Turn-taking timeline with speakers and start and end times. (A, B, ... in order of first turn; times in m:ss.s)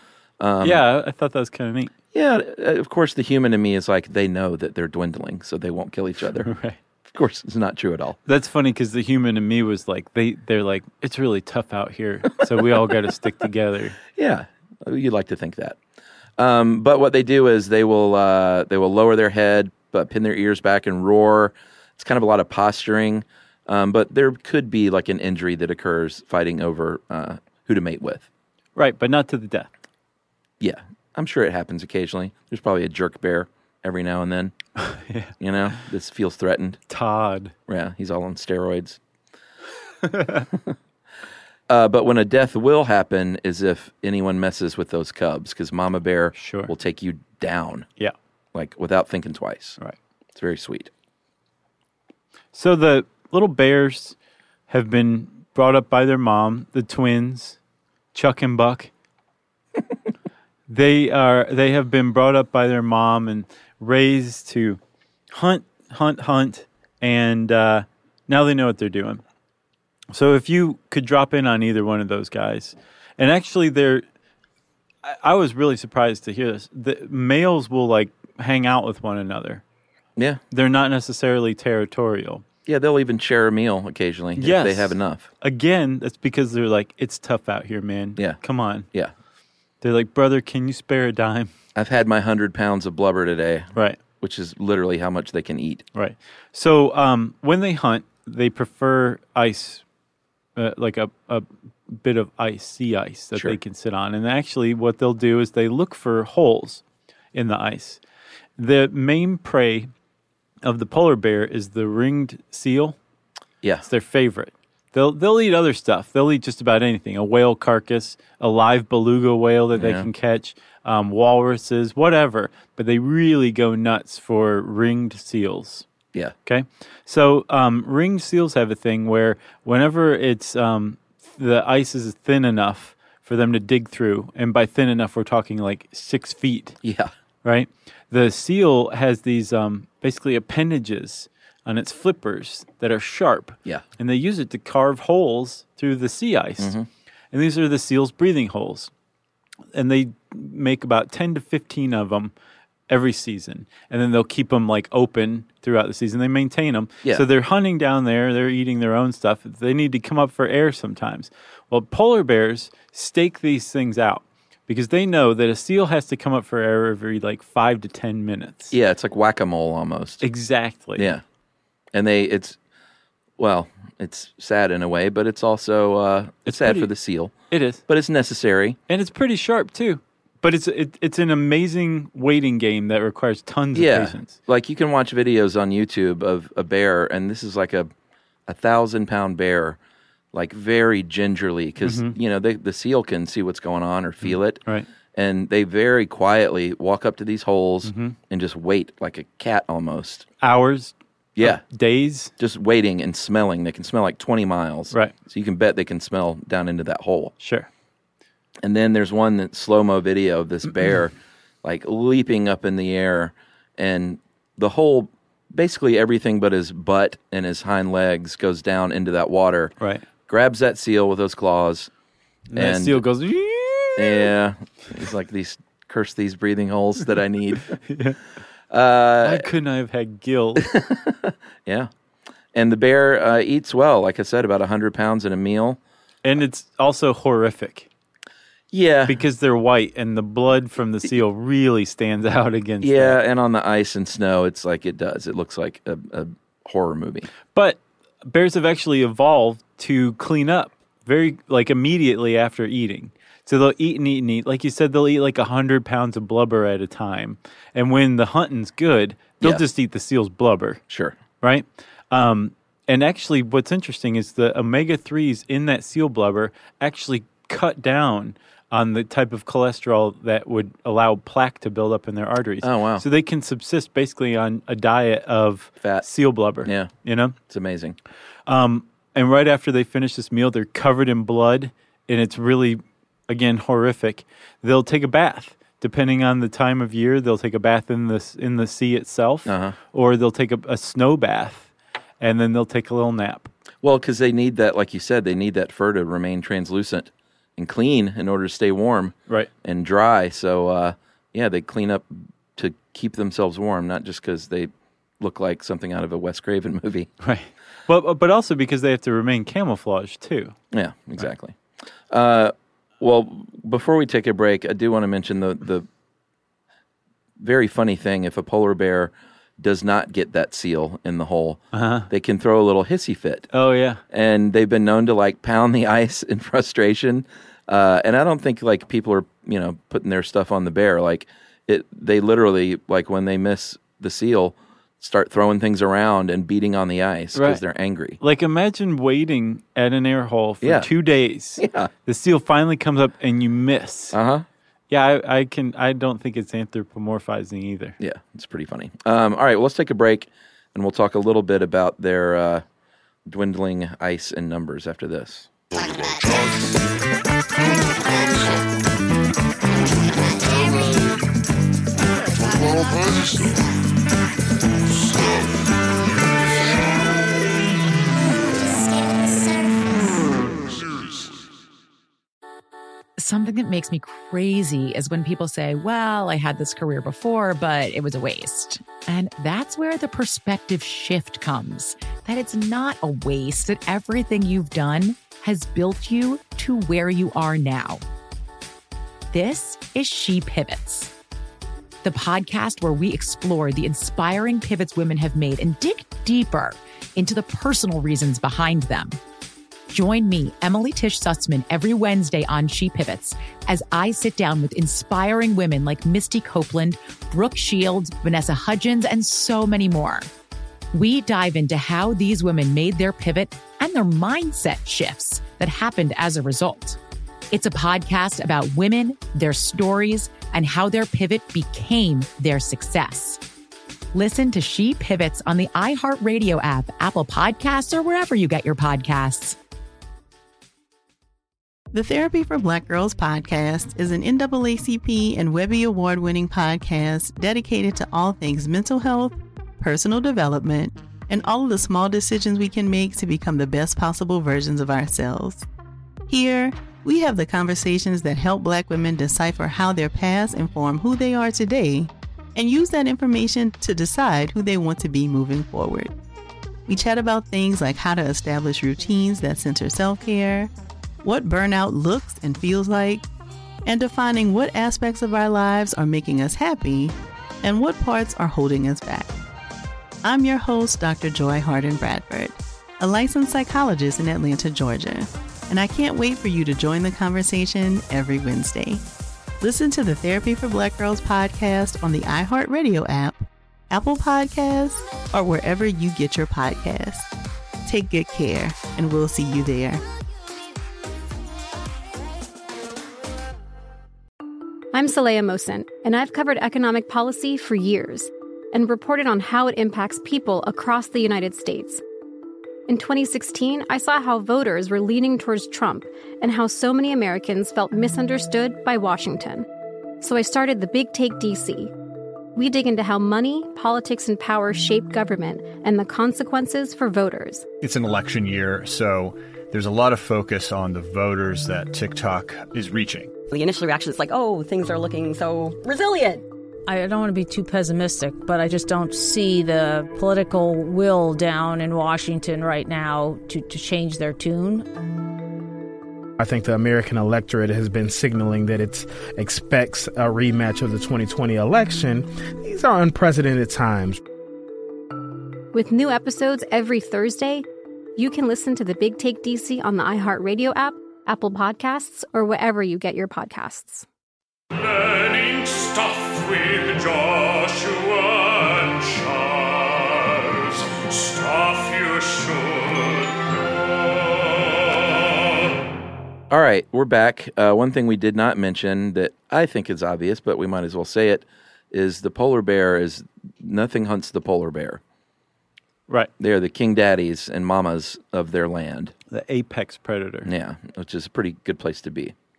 0:00.4-0:00.8 A
0:00.6-0:01.9 B
0:02.1-0:06.5 A
0:06.4-0:06.8 B
0:07.1-0:08.2 A
0:08.2-0:14.0 B
0:14.1-0:15.8 A
0:16.4-0:28.3 A
0:28.8-0:29.7 B
0:30.6-0:34.5 A
0:34.8-0:35.3 B
0:35.4-0:36.8 A
0:36.9-0:37.5 B
0:37.7-0:39.0 A
0:40.1-0:40.4 B
0:41.7-0:47.9 A
0:46.4-0:46.7 B
0:48.5-0:49.8 A
0:50.3-0:50.9 A
0:52.5-0:54.2 B
0:54.7-0:57.6 B
0:58.1-0:58.9 B
1:00.7-1:04.8 B
1:05.3-1:09.2 B
1:10.1-1:14.0 B
1:15.0-1:19.6 B
1:20.5-1:22.4 B
1:22.6-1:25.3 A
1:24.4-1:28.9 B
1:29.8-1:31.5 B
1:31.7-1:35.8 A
1:33.7-1:34.0 B
1:35.9-1:39.8 B
1:40.6-1:46.8 B
1:47.3-1:48.0 B
1:48.6-1:49.9 B
1:50.6-1:53.0 B
1:53.8-2:05.8 B
1:59.7-2:00.1 A
2:06.4-2:16.8 B
2:16.8-2:17.1 A
2:17.4-2:26.7 B
2:26.6-2:26.9 A
2:27.3-2:28.9 B
2:29.7-2:32.3 B
2:32.9-2:48.7 B
2:48.7-2:50.2 A
2:50.2-2:51.1 B
2:51.0-2:51.2 A
2:51.9-2:52.6 A
2:53.4-2:57.3 A
2:56.4-2:56.9 B
2:57.5-2:57.8 B
2:57.9-2:58.8 A
2:58.9-3:04.4 B
3:03.7-3:07.9 A
3:08.5-3:09.8 A
3:10.3-3:14.6 A
3:11.8-3:12.1 B
3:14.2-3:14.9 B
3:15.1-3:20.2 A
3:17.8-3:18.2 B
3:20.4-3:22.3 B
3:21.4-3:21.6 A
3:22.4-3:27.3 A
3:27.4-3:27.7 B
3:28.6-3:31.1 A
3:31.6-3:39.7 A
3:39.8-3:40.0 B
3:40.3-3:41.9 A
3:42.5-3:44.3 B
3:42.5-3:43.0 A
3:44.0-3:47.8 A
3:47.8-3:48.2 B
3:48.7-3:49.4 A
3:49.2-3:50.6 B
3:50.6-3:51.9 A
3:52.5-3:55.8 A
3:56.2-3:57.9 B
3:58.7-3:59.2 A
3:59.1-4:03.2 B
4:02.8-4:07.3 A
4:07.5-4:20.8 B
4:20.9-4:21.2 A
4:21.4-4:37.4 B
4:32.6-4:33.0 A
4:35.8-4:36.0 A
4:36.6-4:36.9 A
4:37.5-4:38.0 A
4:38.5-4:53.5 B
4:49.4-4:49.8 A
4:53.8-5:07.1 A
5:07.2-5:10.6 B
5:10.7-5:11.5 A
5:12.1-5:15.8 A
5:17.4-5:23.5 A
5:21.7-5:22.1 B
5:23.5-5:24.0 B
5:24.1-5:38.2 A
5:37.3-5:37.6 B
5:38.2-5:44.2 B
5:40.6-5:40.9 A
5:41.6-5:41.9 A
5:44.1-5:44.4 A
5:44.9-5:48.0 B
5:48.0-5:52.6 A
5:53.2-5:55.5 A
5:55.7-5:56.8 C
5:57.6-5:58.6 C
5:59.8-6:01.1 C
6:02.2-6:03.8 C
6:05.0-6:05.6 C
6:08.6-6:10.8 C
6:13.2-6:28.0 D
6:29.3-6:31.1 D
6:32.0-6:39.2 D
6:39.9-6:50.3 D
6:50.9-6:57.0 D
6:57.5-7:03.4 D
7:04.1-7:09.6 D
7:11.9-7:25.6 E
7:26.3-7:36.1 E
7:36.9-7:40.7 E
7:41.2-7:43.2 E
7:43.8-7:49.3 E
7:50.2-7:59.0 E
7:59.6-8:07.3 E
8:07.8-8:10.0 E
8:14.9-8:22.0 F
8:22.9-8:29.7 F
8:30.2-8:31.9 F
8:32.5-8:37.6 F
8:37.8-8:43.3 G
8:43.5-8:46.4 H
8:46.9-8:54.8 I
8:56.4-9:04.2 J
9:05.7-9:07.6 F
9:08.2-9:14.0 F
9:15.9-9:17.8 C
9:20.7-9:22.6 C
9:26.5-9:35.0 A
9:36.4-9:39.1 A
9:39.3-9:40.5 B
9:40.4-9:42.3 A